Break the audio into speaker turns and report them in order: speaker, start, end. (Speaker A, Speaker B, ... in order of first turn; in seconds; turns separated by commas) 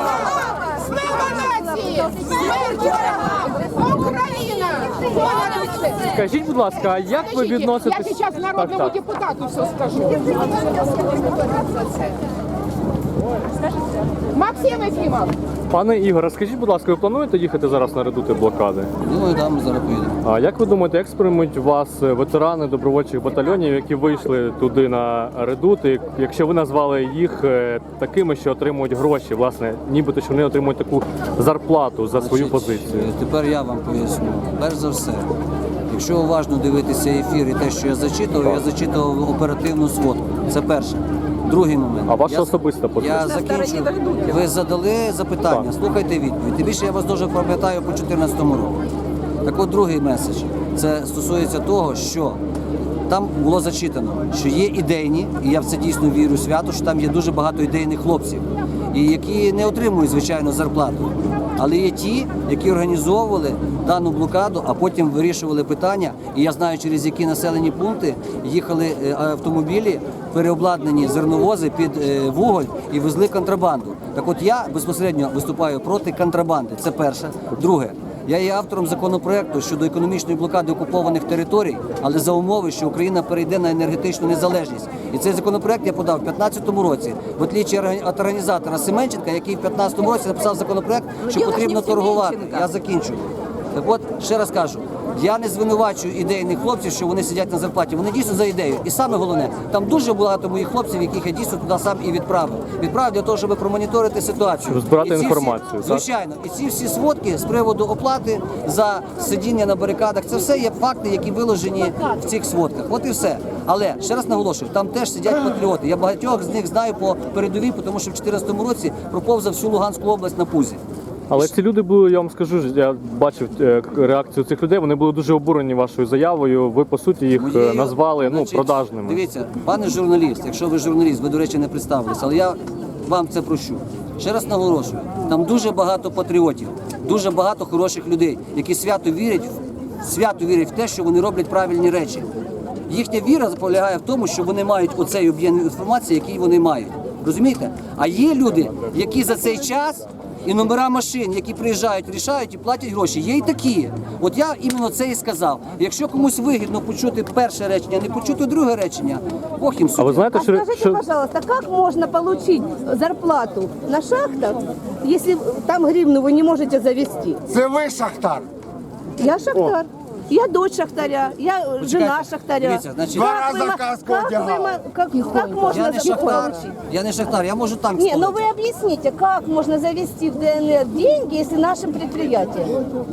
Speaker A: 1.0-2.1, Speaker A: 3.7-6.0, Speaker B: 5.9-9.1, Speaker A: 9.1-10.2, Speaker A: 14.4-15.3, Speaker B: 15.7-18.9, Speaker C: 19.0-20.2, Speaker B: 20.2-33.1, Speaker C: 32.1-35.3, Speaker C: 35.9-48.8, Speaker B: 42.1-43.3, Speaker C: 49.5-52.4, Speaker C: 53.1-120.8, Speaker B: 104.7-106.0, Speaker B: 121.3-129.2, Speaker C: 127.3-142.3, Speaker C: 142.9-160.3, Speaker B: 160.0-161.0, Speaker D: 160.3-167.4, Speaker E: 167.5-168.5, Speaker D: 169.2-176.8, Speaker C: 171.8-173.4, Speaker E: 173.2-174.8, Speaker C: 175.7-178.4, Speaker D: 178.0-182.8